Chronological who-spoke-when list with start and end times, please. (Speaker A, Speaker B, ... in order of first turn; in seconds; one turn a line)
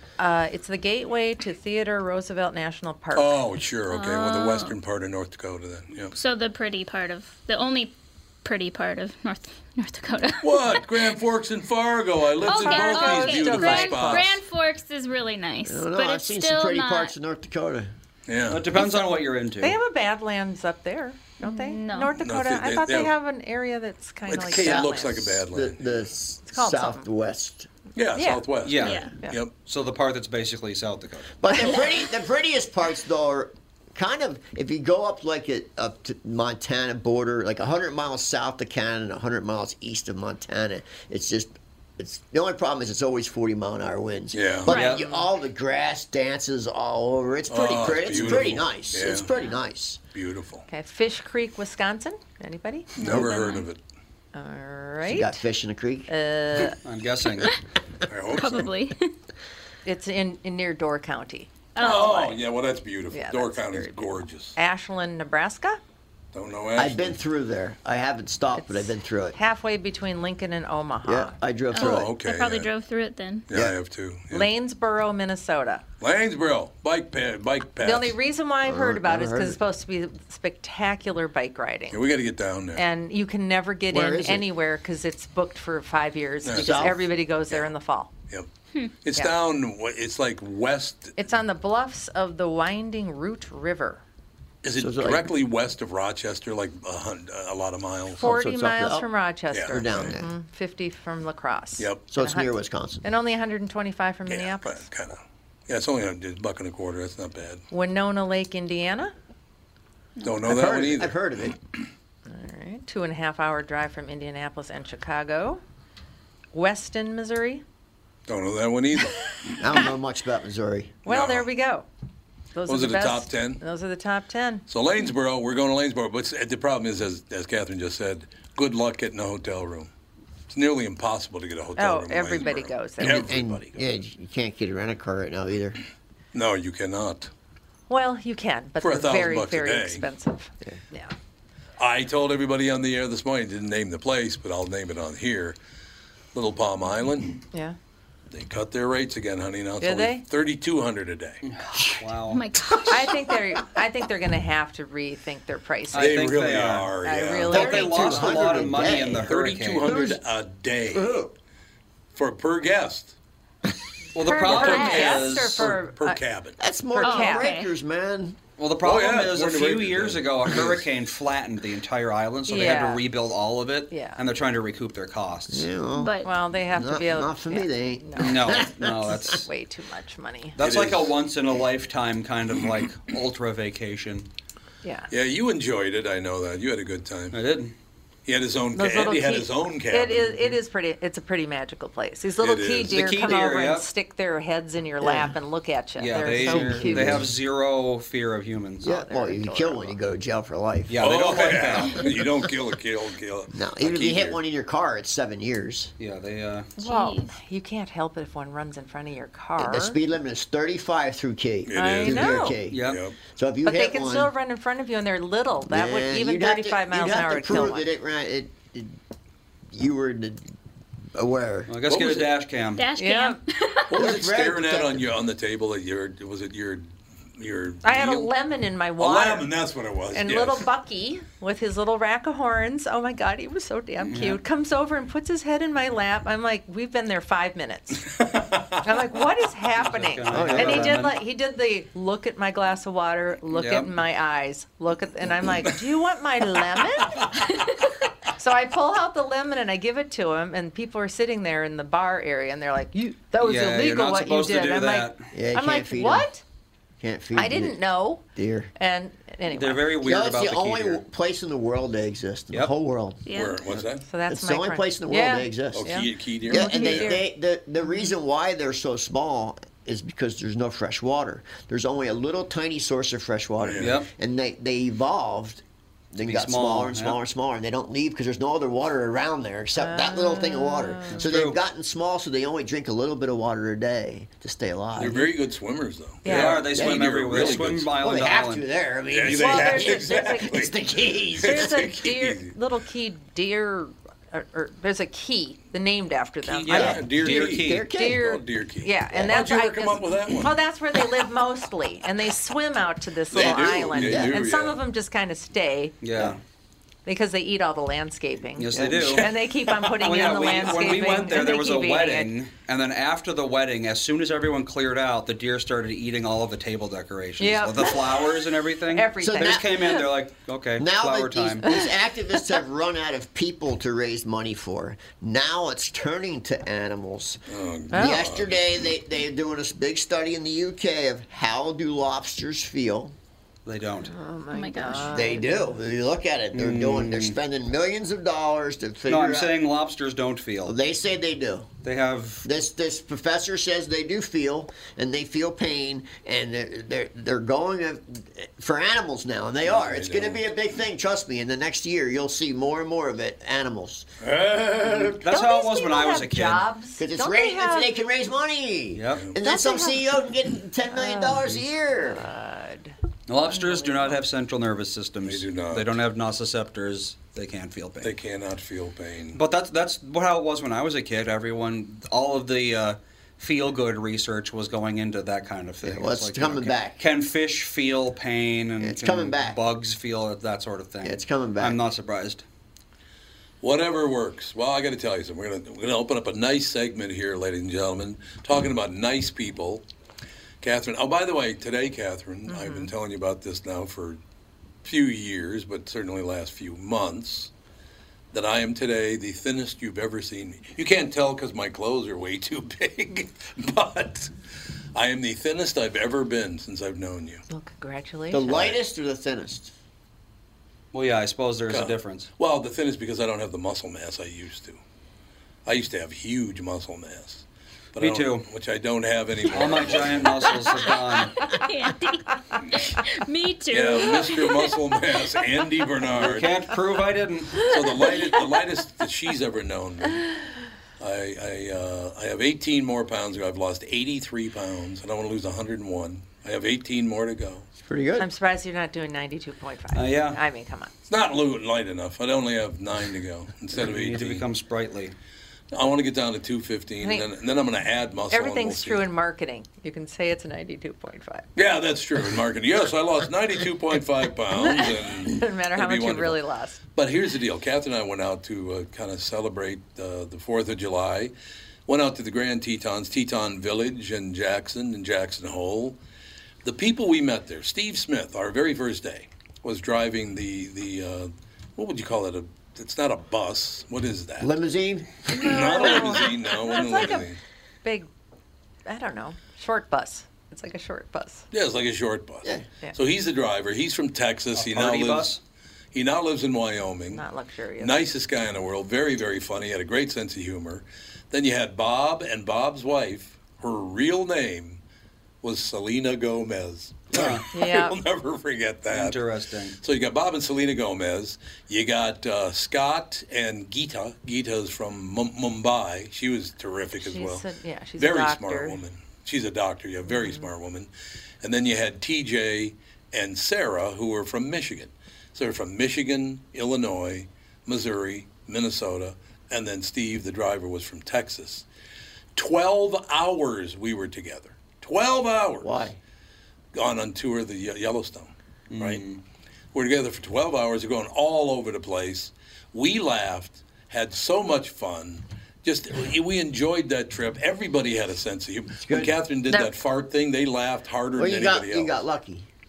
Speaker A: 0.2-3.3
Speaker B: 3.1-6.1
Speaker C: 3.9-4.8
Speaker C: 6.1-11.1
Speaker B: 10.4-14.4
Speaker C: 12.4-17.1
Speaker A: 12.4-14.3
Speaker D: 15.6-17.9
Speaker B: 18.3-18.7
Speaker E: 18.5-19.8
Speaker C: 18.8-19.1
Speaker A: 19.6-25.4
Speaker C: 21.4-22.1
Speaker B: 22.2-23.1
Speaker B: 24.3-25.9
Speaker D: 24.3-27.7
Speaker A: 26.5-27.1
Speaker B: 27.9-29.5
Speaker A: 28.1-28.4
Speaker E: 28.6-29.0
Speaker C: 28.8-29.1
Speaker E: 29.6-31.3
Speaker D: 31.4-50.0
Speaker B: 44.3-44.7
Speaker C: 44.7-45.0
Speaker E: 44.7-45.0
Speaker A: 44.8-45.3
Speaker B: 47.5-49.3
Speaker B: 50.1-50.6
Speaker A: 50.7-52.9
Speaker B: 53.0-53.8
Speaker C: 53.0-53.6
Speaker D: 53.0-53.3
Speaker A: 54.3-55.4
Speaker D: 55.0-56.1
Speaker A: 56.1-56.8
Speaker E: 56.8-57.5
Speaker B: 58.1-58.7
Speaker C: 58.3-59.1
Speaker A: 59.8-62.3
Speaker C: 61.7-62.4
Speaker B: 61.8-64.5
Speaker A: 63.1-65.8
Speaker B: 66.3-67.2
Speaker D: 66.8-69.3
Speaker A: 68.5-71.3
Speaker D: 71.0-72.1
Speaker C: 71.7-73.5
Speaker B: 71.8-72.7
Speaker B: 73.5-74.5
Speaker A: 74.3-75.8
Speaker B: 76.0-78.2
Speaker A: 77.8-82.0
Speaker D: 78.6-79.6
Speaker B: 81.9-82.8
Speaker A: 82.7-88.1
Speaker D: 83.9-84.5
Speaker B: 86.4-87.7
Speaker D: 86.5-87.0
Speaker B: 89.0-91.2
Speaker A: 91.2-94.0
Speaker B: 94.6-98.4
Speaker D: 94.8-95.3
Speaker A: 98.2-104.8
Speaker D: 98.2-99.1
Speaker B: 99.5-100.2
Speaker D: 99.7-100.3
Speaker D: 102.1-103.0
Speaker B: 104.2-105.2
Speaker B: 105.7-107.6
Speaker A: 107.7-109.1
Speaker B: 110.2-111.2
Speaker D: 110.4-111.5
Speaker A: 112.3-115.6
Speaker A: 116.5-117.6
Speaker B: 118.3-119.2
Speaker D: 119.6-121.0
Speaker A: 121.0-121.8
Speaker B: 121.1-121.5
Speaker A: 122.5-124.6
Speaker B: 122.7-123.6
Speaker B: 124.7-129.9
Speaker B: 130.5-133.8
Speaker A: 131.8-133.4
Speaker D: 133.0-135.8
Speaker B: 136.3-137.3
Speaker A: 137.9-141.1
Speaker B: 138.8-140.0
Speaker B: 141.8-145.6
Speaker B: 146.3-147.4
Speaker B: 148.3-151.4
Speaker A: 149.8-150.2
Speaker E: 151.4-152.4
Speaker D: 151.7-152.0
Speaker C: 152.3-153.1
Speaker A: 152.9-156.2
Speaker E: 155.9-156.9
Speaker B: 155.9-157.8
Speaker A: 157.0-158.7
Speaker E: 157.5-159.9
Speaker D: 157.5-159.3
Speaker B: 159.2-161.2
Speaker D: 160.9-161.3
Speaker B: 162.1-163.1
Speaker E: 164.1-165.7
Speaker A: 164.2-166.2
Speaker B: 164.4-166.6
Speaker C: 164.6-165.1
Speaker D: 166.6-168.4
Speaker A: 166.9-167.5
Speaker C: 167.0-167.7
Speaker E: 168.6-175.7
Speaker B: 168.8-170.8
Speaker A: 172.5-173.0
Speaker A: 173.9-174.2
Speaker D: 175.5-176.1
Speaker C: 175.9-176.3
Speaker A: 176.2-180.6
Speaker D: 176.7-179.2
Speaker E: 178.2-179.5
Speaker E: 180.6-184.3
Speaker B: 180.6-181.1
Speaker A: 184.8-185.1
Speaker B: 185.1-187.4
Speaker E: 187.3-187.7
Speaker B: 188.2-190.3
Speaker A: 188.7-197.3
Speaker B: 192.4-193.1
Speaker E: 192.9-193.9
Speaker E: 196.0-198.8
Speaker D: 196.3-197.3
Speaker A: 198.8-200.0
Speaker D: 198.8-201.0
Speaker E: 200.9-202.0
Speaker B: 201.0-204.4
Speaker D: 203.5-205.9
Speaker E: 206.0-206.7
Speaker A: 206.8-210.0
Speaker C: 206.8-207.3
Speaker D: 209.6-214.3
Speaker B: 211.7-213.2
Speaker A: 211.7-212.6
Speaker E: 212.7-213.0
Speaker A: 213.6-217.9
Speaker D: 215.7-218.9
Speaker D: 219.7-220.5
Speaker D: 221.1-221.7
Speaker E: 221.7-222.8
Speaker B: 221.9-222.3
Speaker C: 222.8-224.0
Speaker A: 223.0-223.4
Speaker B: 223.9-226.9
Speaker D: 223.9-225.1
Speaker B: 227.4-228.3
Speaker A: 227.8-229.5
Speaker B: 229.0-230.7
Speaker A: 230.1-238.1
Speaker E: 234.0-234.4
Speaker B: 238.2-238.8
Speaker A: 238.8-247.3
Speaker E: 239.8-241.2
Speaker D: 240.3-241.0
Speaker E: 243.5-243.9
Speaker A: 248.3-256.4
Speaker E: 253.4-255.3
Speaker D: 255.3-256.3
Speaker D: 257.0-257.8
Speaker A: 257.3-258.2
Speaker D: 258.3-258.7
Speaker A: 258.8-259.9
Speaker E: 259.5-261.0
Speaker D: 260.0-263.2
Speaker C: 263.2-263.6
Speaker B: 263.3-264.0
Speaker A: 264.1-267.3
Speaker D: 264.3-275.6
Speaker B: 265.7-267.1
Speaker B: 273.6-273.9
Speaker E: 273.8-274.1
Speaker D: 276.1-285.3
Speaker E: 276.2-277.2
Speaker A: 279.8-281.3
Speaker E: 281.1-281.6
Speaker B: 284.9-287.9
Speaker A: 286.2-286.7
Speaker E: 286.3-288.6
Speaker D: 286.7-291.8
Speaker B: 289.1-290.7
Speaker A: 289.3-290.5
Speaker B: 291.4-292.5
Speaker A: 291.4-297.0
Speaker B: 296.5-300.5
Speaker E: 296.6-297.8
Speaker D: 296.7-298.3
Speaker A: 297.9-306.0
Speaker D: 299.1-299.4
Speaker B: 303.3-304.8
Speaker D: 303.3-304.4
Speaker E: 306.0-306.4
Speaker A: 307.1-312.3
Speaker E: 308.6-309.3
Speaker D: 308.7-309.2
Speaker E: 310.0-321.6
Speaker A: 317.4-318.4
Speaker A: 318.9-320.0
Speaker D: 319.2-320.0
Speaker D: 320.8-327.4
Speaker B: 327.5-328.6
Speaker A: 327.9-328.2
Speaker D: 327.9-333.1
Speaker E: 333.6-334.1
Speaker A: 334.0-335.8
Speaker C: 334.5-335.3
Speaker D: 335.1-339.6
Speaker E: 336.5-337.3
Speaker E: 339.1-340.8
Speaker D: 340.6-341.7
Speaker E: 341.8-342.4
Speaker D: 342.4-354.1
Speaker B: 349.6-350.4
Speaker B: 354.2-355.2
Speaker E: 355.2-356.6
Speaker A: 355.3-357.9
Speaker D: 357.0-362.2
Speaker E: 358.9-359.2
Speaker A: 359.4-360.0
Speaker A: 360.9-362.9
Speaker E: 363.3-368.1
Speaker A: 363.5-364.2
Speaker B: 365.2-366.0
Speaker B: 368.0-369.4
Speaker E: 369.3-382.4
Speaker D: 375.8-377.0
Speaker D: 378.8-379.6
Speaker D: 381.0-381.8
Speaker B: 383.6-389.8
Speaker B: 390.6-394.2
Speaker A: 392.5-392.9
Speaker B: 394.8-397.5
Speaker B: 398.3-404.3
Speaker B: 404.9-407.4
Speaker A: 407.5-408.5
Speaker D: 408.3-409.7
Speaker B: 408.5-408.8
Speaker E: 410.9-412.3
Speaker B: 411.7-414.8
Speaker B: 415.6-420.6
Speaker E: 418.0-418.5
Speaker E: 419.5-421.3
Speaker C: 421.4-424.8
Speaker B: 423.7-426.5
Speaker E: 426.1-427.6
Speaker B: 427.6-430.3
Speaker B: 431.0-437.7
Speaker D: 437.8-438.3
Speaker A: 438.2-440.9
Speaker E: 439.9-440.4
Speaker B: 441.1-444.4
Speaker E: 443.7-445.1
Speaker B: 445.7-449.0
Speaker A: 447.0-447.3
Speaker A: 448.3-451.4
Speaker B: 451.6-456.4
Speaker A: 454.5-456.8
Speaker B: 456.9-461.3
Speaker B: 461.9-466.0
Speaker B: 466.6-474.5
Speaker D: 474.4-476.2
Speaker A: 475.3-477.3
Speaker B: 475.4-477.4
Speaker A: 477.8-478.1
Speaker A: 478.9-481.4
Speaker B: 481.5-485.4
Speaker E: 484.5-485.4
Speaker B: 485.9-487.2
Speaker A: 487.1-487.9
Speaker B: 487.8-494.8
Speaker B: 495.4-499.2
Speaker E: 497.1-497.4
Speaker A: 497.5-498.0
Speaker E: 498.9-499.8
Speaker B: 499.8-507.4
Speaker A: 507.0-508.8
Speaker B: 508.0-510.9
Speaker A: 510.1-510.4
Speaker B: 511.4-521.6
Speaker B: 522.4-525.9
Speaker D: 525.6-526.0
Speaker B: 526.7-529.0
Speaker E: 528.7-529.2
Speaker B: 529.7-541.9
Speaker D: 538.8-539.2
Speaker D: 541.1-542.5